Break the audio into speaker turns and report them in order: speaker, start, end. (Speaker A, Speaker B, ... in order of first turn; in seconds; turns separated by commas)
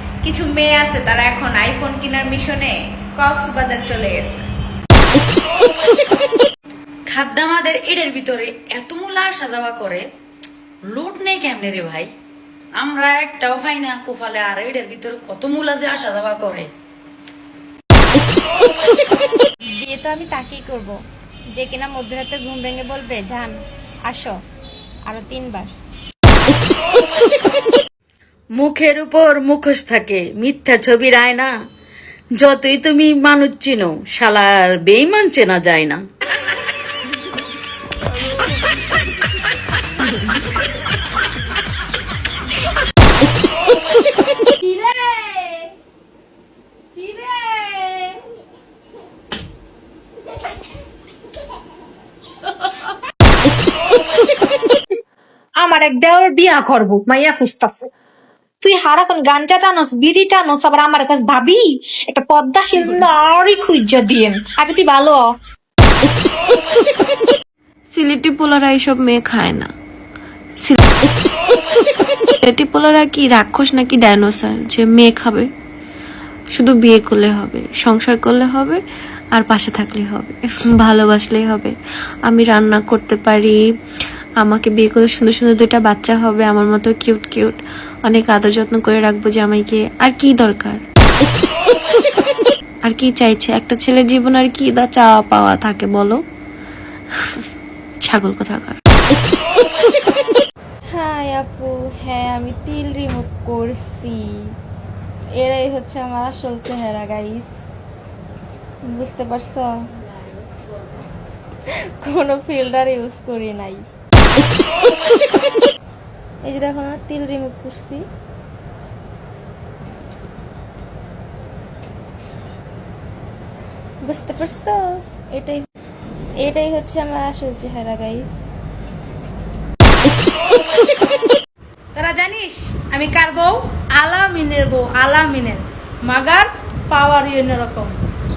Speaker A: 0.2-4.4, Speaker B: 7.1-10.0, Speaker B: 10.9-12.1, Speaker B: 12.8-16.7, Speaker C: 19.8-21.0, Speaker C: 21.5-24.4, Speaker C: 25.1-25.7, Speaker D: 28.6-31.5, Speaker D: 32.4-36.0, Speaker E: 55.6-57.9, Speaker E: 58.6-65.2, Speaker F: 67.9-69.7, Speaker F: 72.4-75.5, Speaker F: 76.6-78.8, Speaker F: 79.3-81.7, Speaker F: 82.3-83.6, Speaker F: 84.4-90.8, Speaker F: 92.9-96.2, Speaker F: 98.0-98.8, Speaker C: 100.9-104.3, Speaker C: 105.4-107.5, Speaker C: 108.9-109.7, Speaker C: 112.0-113.8, Speaker C: 116.4-118.0, Speaker C: 124.1-125.7, Speaker C: 126.4-128.3, Speaker G: 131.9-138.0